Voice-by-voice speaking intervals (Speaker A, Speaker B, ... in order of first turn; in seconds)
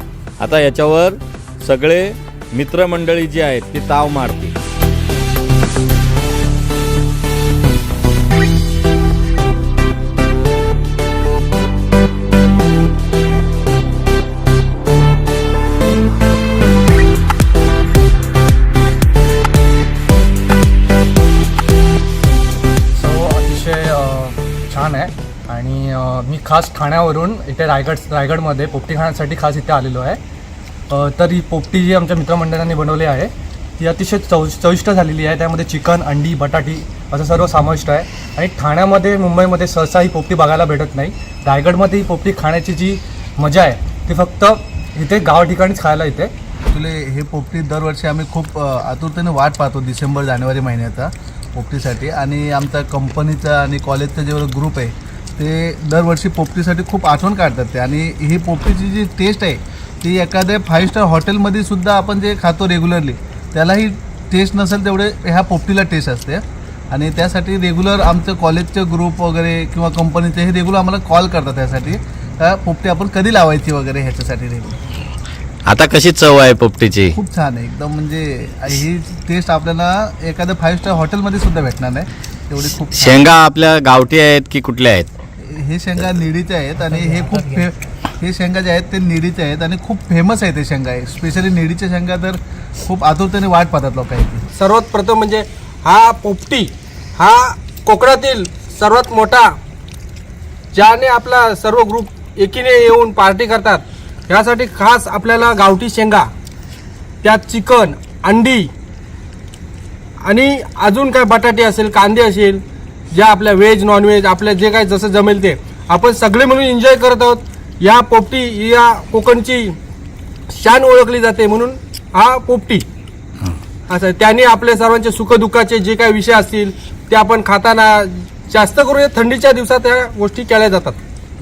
Speaker A: 0.4-4.6, 75.7-77.2, 82.9-85.1
Speaker B: 22.9-30.2, 30.9-46.3
Speaker C: 46.7-74.8, 77.1-83.3, 85.4-94.5
Speaker D: 94.5-99.5, 100.7-106.3, 107.2-108.7, 110.2-119.8, 120.5-122.8, 123.9-131.0